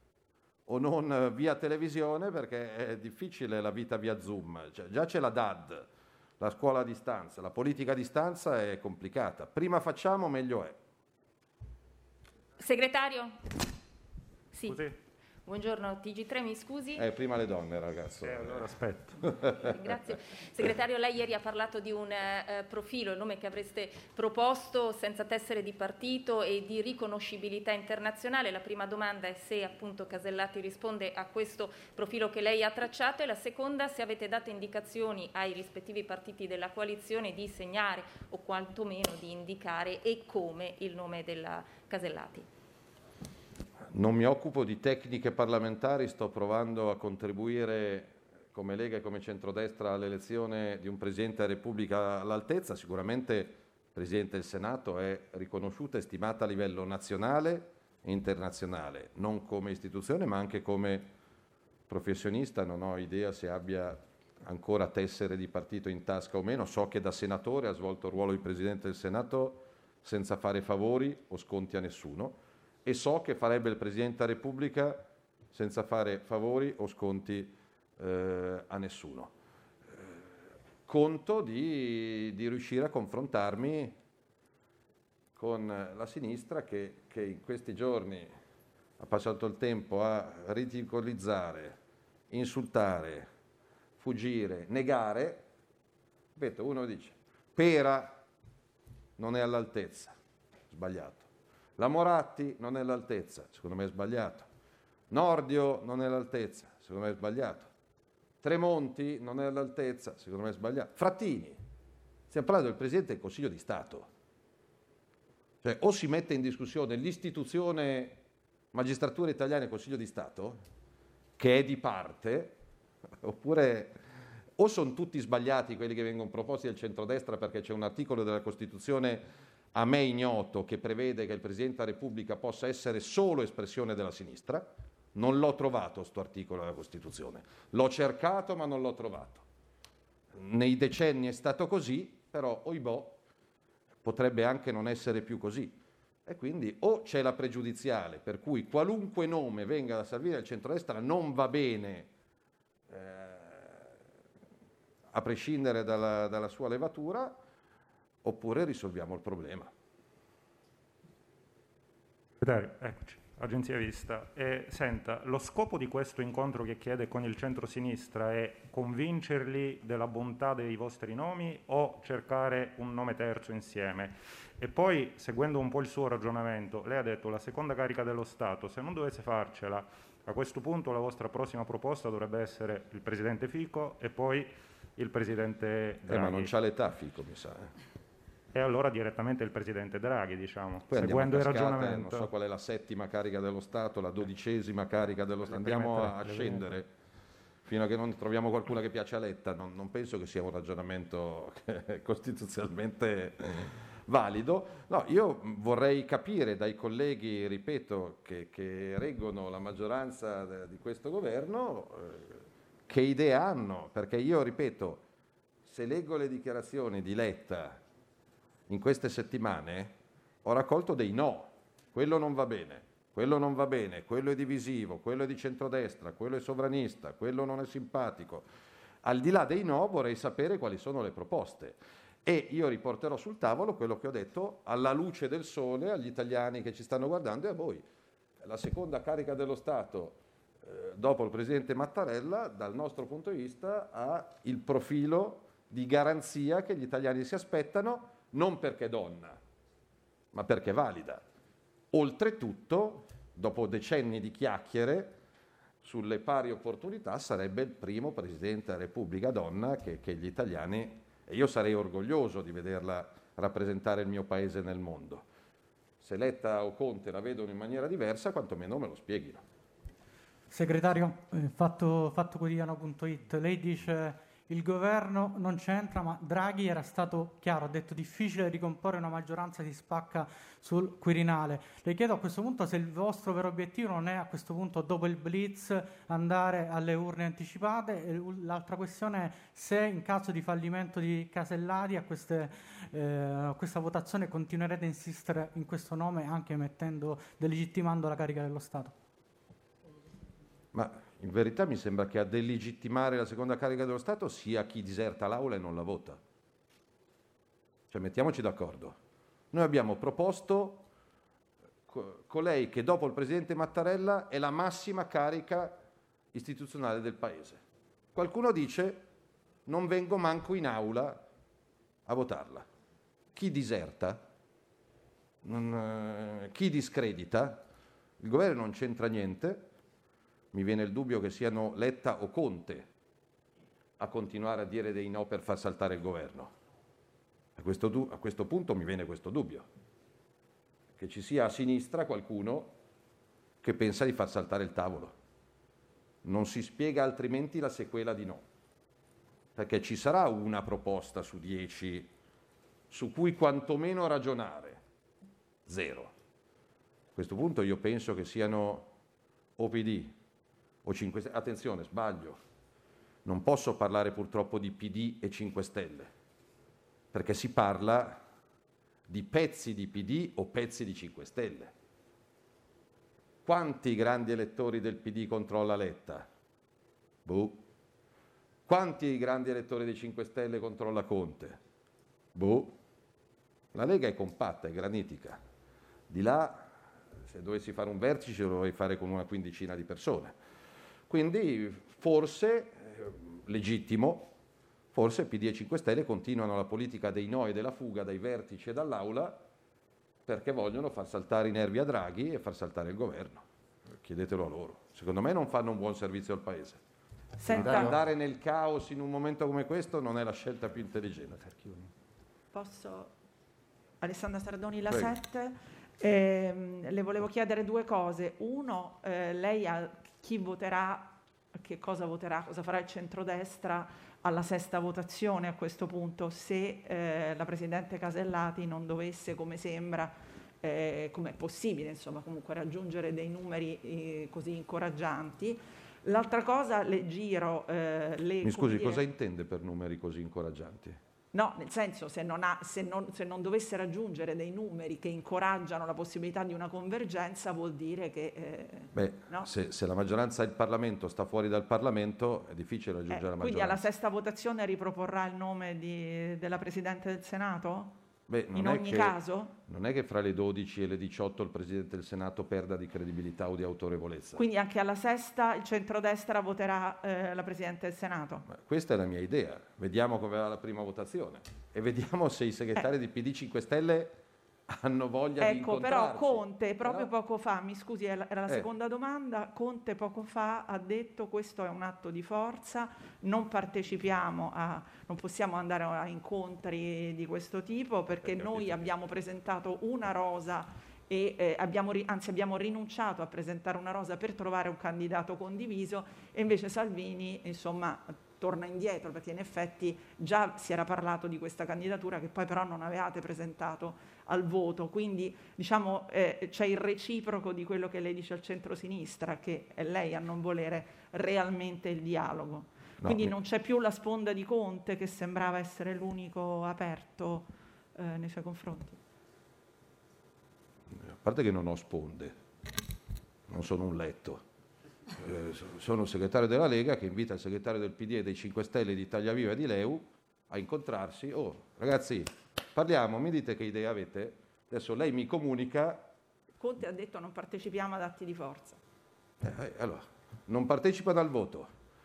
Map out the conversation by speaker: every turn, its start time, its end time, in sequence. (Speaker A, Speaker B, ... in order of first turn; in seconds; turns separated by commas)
Speaker A: 0.7-5.9, Speaker A: 6.4-10.8, Speaker B: 12.6-13.4, Speaker B: 14.5-14.8, Speaker C: 14.6-15.0, Speaker B: 15.4-17.0, Speaker A: 16.9-20.0, Speaker C: 18.2-19.3, Speaker B: 19.7-42.5, Speaker A: 43.9-61.1, Speaker A: 61.9-79.3, Speaker A: 79.9-80.2, Speaker A: 80.8-84.0, Speaker A: 85.3-88.3, Speaker A: 89.0-91.8, Speaker A: 92.3-93.3, Speaker A: 94.0-95.4, Speaker A: 96.3-98.2, Speaker A: 99.2-100.1, Speaker A: 100.7-101.3, Speaker A: 101.8-104.5, Speaker A: 105.1-107.7, Speaker A: 108.4-111.6, Speaker A: 112.3-114.1, Speaker A: 115.6-118.2, Speaker A: 118.7-120.6, Speaker A: 121.4-122.6, Speaker A: 123.2-124.0, Speaker A: 124.6-139.4, Speaker A: 140.3-143.2, Speaker A: 144.0-152.1, Speaker A: 152.9-153.9, Speaker A: 155.1-157.4, Speaker A: 158.2-159.7, Speaker C: 162.4-186.5, Speaker A: 186.1-187.7, Speaker C: 188.5-192.3, Speaker A: 190.9-196.9, Speaker C: 195.4-196.8, Speaker A: 197.6-215.0, Speaker A: 215.6-217.8, Speaker A: 218.7-228.4, Speaker A: 229.0-237.8, Speaker A: 238.4-249.4, Speaker A: 250.3-251.2, Speaker A: 251.9-255.2, Speaker A: 255.8-265.2, Speaker A: 266.0-269.4, Speaker D: 270.5-298.9, Speaker A: 300.7-306.2, Speaker A: 307.9-309.0, Speaker A: 309.5-310.9, Speaker A: 311.9-315.8, Speaker A: 316.3-317.6, Speaker A: 318.1-319.0, Speaker A: 319.7-321.2, Speaker A: 322.1-322.6, Speaker A: 323.3-324.3, Speaker A: 325.4-327.6, Speaker A: 328.2-329.7, Speaker A: 330.5-332.9, Speaker A: 334.0-336.5, Speaker A: 337.6-339.7, Speaker A: 341.0-342.7, Speaker A: 343.6-345.1, Speaker A: 346.2-348.4, Speaker A: 349.6-352.1, Speaker A: 352.9-354.8, Speaker A: 355.6-356.1, Speaker A: 357.1-358.9, Speaker A: 359.6-360.2, Speaker A: 360.8-362.4, Speaker A: 363.2-366.1, Speaker A: 367.1-368.2, Speaker A: 369.1-371.7, Speaker A: 373.4-376.3, Speaker A: 377.2-377.6, Speaker A: 378.6-381.6, Speaker A: 382.3-382.8, Speaker A: 383.7-385.4, Speaker A: 386.1-390.3, Speaker A: 391.1-394.3, Speaker A: 394.9-399.4, Speaker A: 400.2-406.8, Speaker E: 407.4-407.9, Speaker A: 407.4-411.9, Speaker E: 412.5-413.1, Speaker E: 414.0-439.0, Speaker A: 414.9-415.2, Speaker A: 438.4-441.0, Speaker E: 441.3-449.5, Speaker A: 448.9-453.9, Speaker E: 453.1-458.0, Speaker A: 458.3-464.4, Speaker E: 458.5-459.6, Speaker E: 464.4-468.4, Speaker A: 468.4-474.2, Speaker A: 474.7-477.1, Speaker E: 475.4-519.0, Speaker A: 488.2-488.9, Speaker A: 513.0-513.4, Speaker A: 521.0-522.3, Speaker A: 523.5-524.4, Speaker A: 525.2-536.0, Speaker E: 536.6-538.8, Speaker A: 539.4-541.7